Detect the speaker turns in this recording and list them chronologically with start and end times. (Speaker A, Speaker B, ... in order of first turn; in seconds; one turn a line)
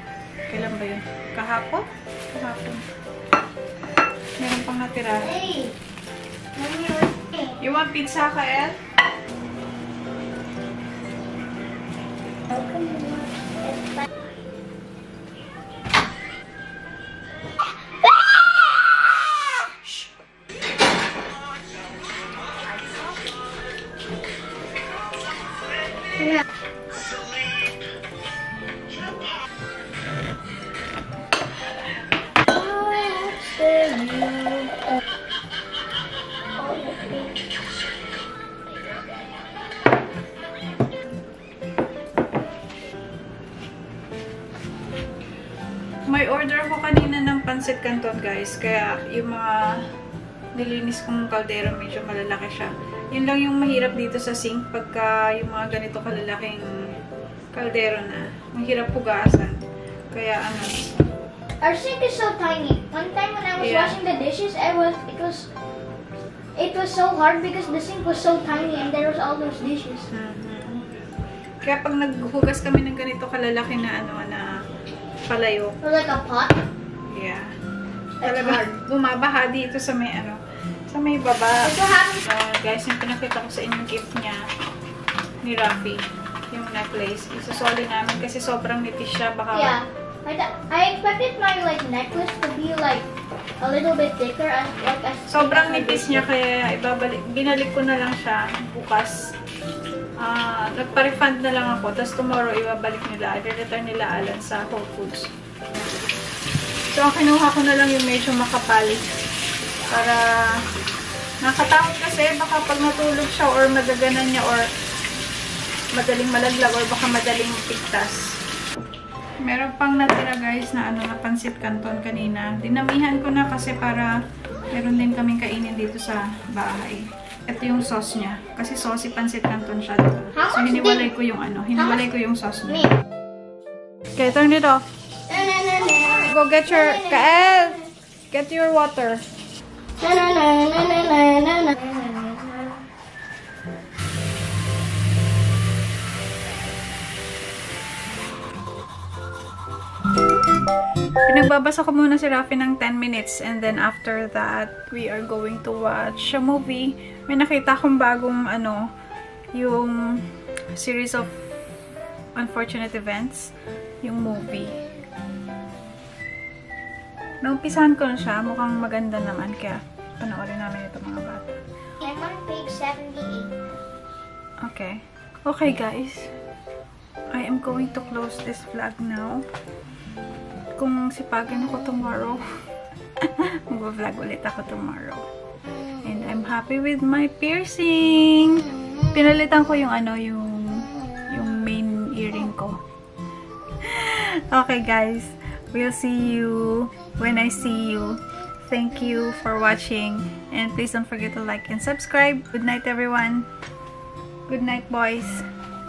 Speaker A: 0.5-2.9
Speaker A: 4.4-5.3
Speaker B: 5.2-5.7
Speaker B: 6.5-7.4
Speaker A: 7.6-8.8
Speaker B: 12.5-13.3
Speaker B: 32.5-34.7
Speaker B: 36.6-37.3
Speaker A: 46.1-49.8
Speaker A: 50.5-56.9
Speaker A: 57.5-61.0
Speaker B: 61.6-65.5
Speaker A: 63.6-64.0
Speaker B: 66.5-70.1
Speaker A: 70.1-70.8
Speaker A: 71.6-74.5
Speaker A: 75.3-75.8
Speaker B: 75.8-76.6
Speaker A: 77.1-77.5
Speaker B: 78.2-78.8
Speaker A: 78.2-84.5
Speaker B: 81.6-82.2
Speaker A: 85.4-89.8
Speaker B: 89.5-93.1
Speaker B: 93.6-96.2
Speaker A: 95.3-99.3
Speaker A: 100.2-105.3
Speaker A: 106.9-109.0
Speaker A: 109.9-110.6
Speaker A: 111.4-114.7
Speaker A: 115.9-118.3
Speaker A: 119.4-124.1
Speaker A: 124.7-132.8
Speaker B: 130.3-131.1
Speaker A: 134.2-134.8
Speaker B: 135.3-137.8
Speaker A: 136.3-137.8
Speaker A: 138.3-139.2
Speaker B: 140.0-142.8
Speaker A: 151.3-158.8
Speaker A: 159.5-161.3
Speaker A: 162.3-164.7
Speaker A: 167.4-171.5
Speaker B: 172.0-173.5
Speaker A: 174.6-176.3
Speaker A: 177.3-179.4
Speaker A: 180.8-182.4
Speaker A: 183.2-185.2
Speaker A: 186.0-192.8
Speaker A: 193.8-203.5
Speaker A: 204.5-205.4